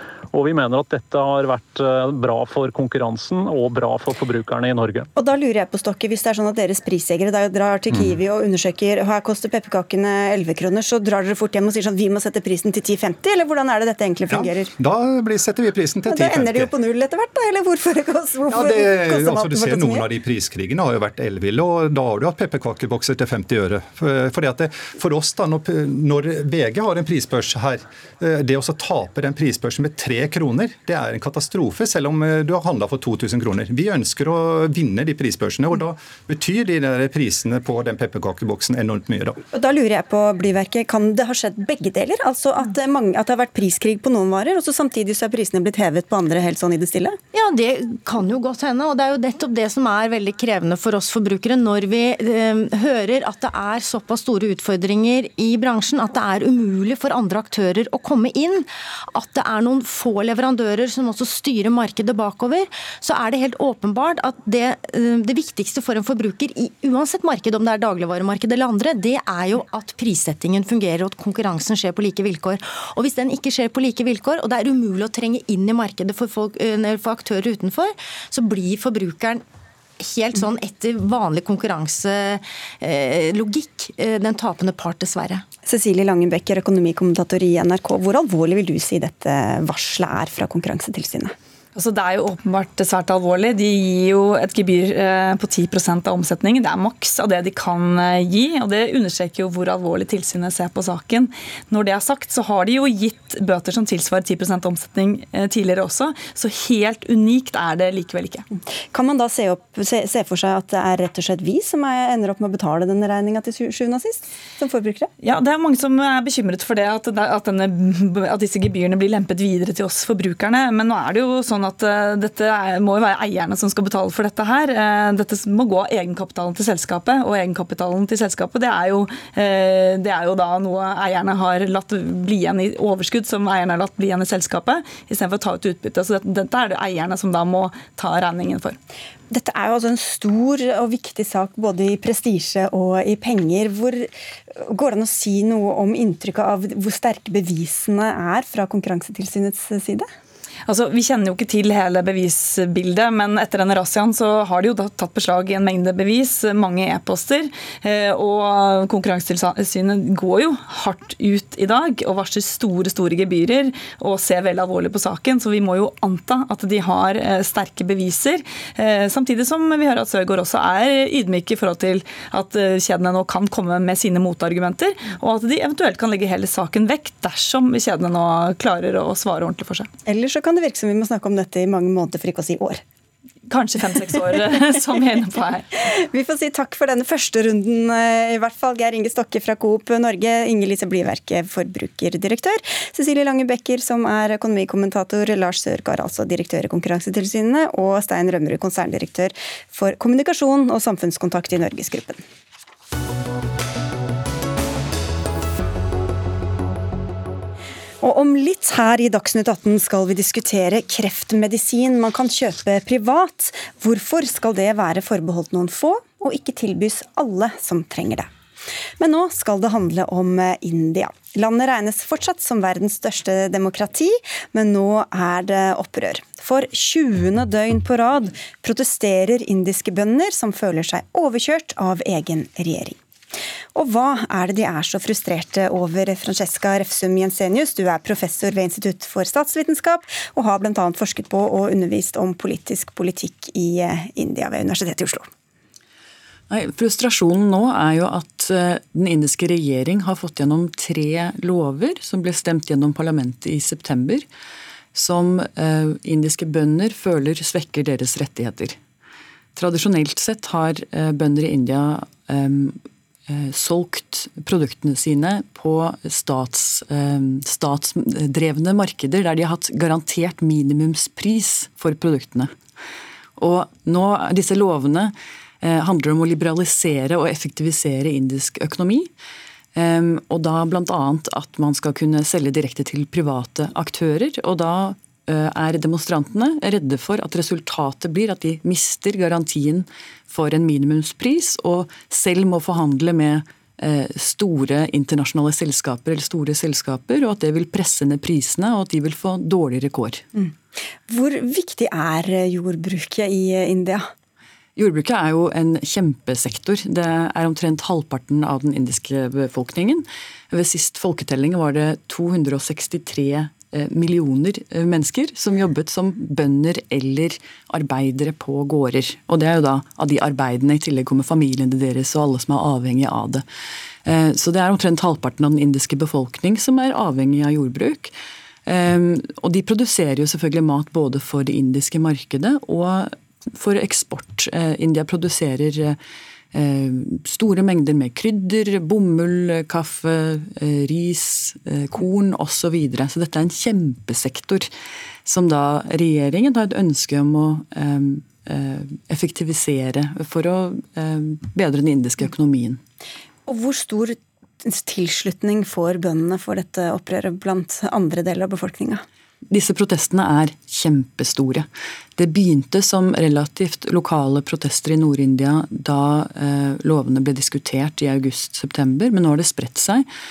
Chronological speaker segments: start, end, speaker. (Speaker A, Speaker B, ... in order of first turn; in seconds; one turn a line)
Speaker A: 0.3-5.1
Speaker B: 5.2-14.7
Speaker C: 14.3-16.7
Speaker B: 16.1-20.1
Speaker C: 18.5-39.4
Speaker B: 39.5-47.2
Speaker D: 47.3-79.4
Speaker D: 80.0-85.4
Speaker B: 85.7-91.3
Speaker E: 91.7-108.5
Speaker B: 108.9-115.1
Speaker E: 115.2-138.8
Speaker B: 139.3-150.1
Speaker E: 150.7-179.9
Speaker B: 180.1-182.8
Speaker E: 183.5-185.7
Speaker B: 185.9-202.2
Speaker B: 208.0-218.3
Speaker B: 219.0-233.0
Speaker B: 233.8-245.3
Speaker F: 246.5-254.3
Speaker F: 254.9-258.8
Speaker F: 259.6-272.5
Speaker F: 273.4-279.1
Speaker F: 279.8-300.2
Speaker B: 301.1-304.1
Speaker F: 304.8-323.4
Speaker F: 324.1-328.1
Speaker F: 328.7-336.0
Speaker F: 336.5-344.7
Speaker F: 345.2-352.8
Speaker B: 353.5-359.0
Speaker F: 359.5-370.1